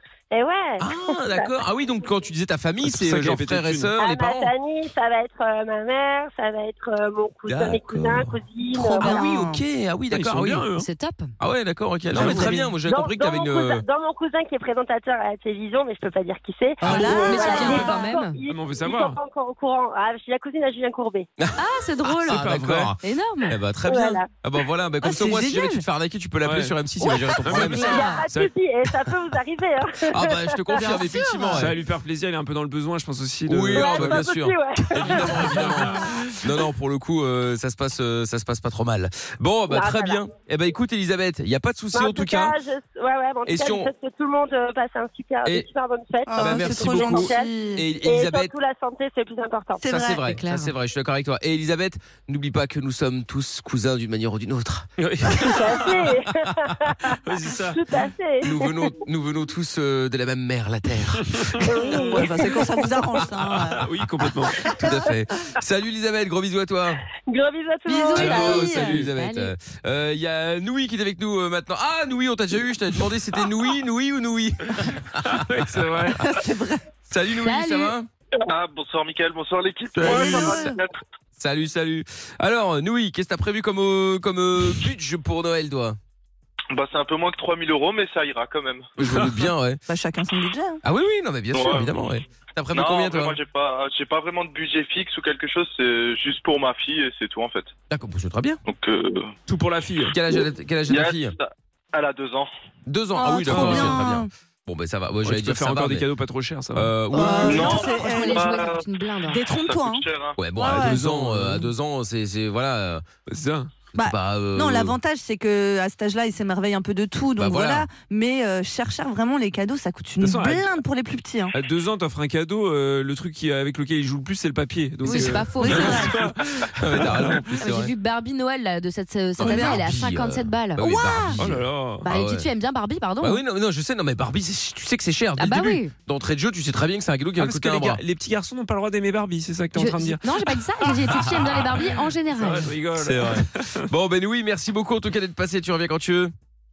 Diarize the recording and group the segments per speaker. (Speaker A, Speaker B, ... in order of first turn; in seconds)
Speaker A: 0.3-1.5, 4.0-9.2, 12.8-21.3, 23.9-24.3, 27.8-30.8, 33.7-35.5, 39.7-40.3, 41.9-49.9, 55.4-57.2, 57.7-58.6, 61.7-62.2, 67.3-68.8
Speaker B: 0.8-4.5, 7.5-10.7, 11.4-13.8, 16.8-17.1, 21.4-28.1, 30.1-31.8, 33.5-42.5, 43.5-43.9, 46.4-48.5, 49.8-56.5, 58.4-62.3, 64.8-67.0, 68.1-76.1, 77.1-78.1, 80.0-80.8, 81.4-86.0, 89.0-89.8, 90.8-93.4, 97.9-98.6, 100.1-101.3, 102.9-106.0, 106.8-107.8, 110.4-113.0, 113.9-115.0, 117.4-117.9, 125.8-126.0, 126.7-127.9, 129.4-132.5, 133.2-138.0, 141.1-141.8, 143.0-146.3
Speaker C: 2.8-3.9, 10.1-10.9, 12.1-12.5, 18.5-19.2, 22.3-22.9, 26.4-26.8, 27.4-28.5, 31.5-34.3, 35.0-36.4, 55.0-55.9, 57.2-57.8, 61.6-62.4, 63.4-64.7, 68.2-69.1, 75.2-76.2, 99.5-100.2, 103.5-104.0, 105.2-106.9, 110.6-111.7, 113.3-113.7, 120.2-120.8, 121.5-127.5, 131.4-132.1, 137.4-141.0, 142.3-143.9
Speaker D: 8.7-9.6, 12.2-12.7, 16.8-18.0, 25.0-25.8, 30.9-31.5, 46.3-47.9, 49.8-50.2, 62.1-63.8, 67.9-69.0, 76.1-76.8, 80.0-80.8, 89.9-90.8, 103.2-104.3, 107.1-108.6, 109.2-110.0, 110.6-111.0, 114.0-121.5, 125.0-126.2, 129.5-129.8, 130.8-131.3
Speaker E: 10.8-11.3, 16.9-18.4, 21.6-23.6, 27.7-28.2, 50.2-50.7, 69.1-69.5, 77.4-77.9, 107.5-109.4, 125.1-126.1, 127.6-130.9, 132.0-133.4, 135.4-135.9, 139.8-142.7
Speaker F: 78.5-81.0, 86.7-88.9, 91.5-91.9, 92.7-97.7, 98.7-99.3, 100.9-102.5, 107.5-108.8, 109.6-110.4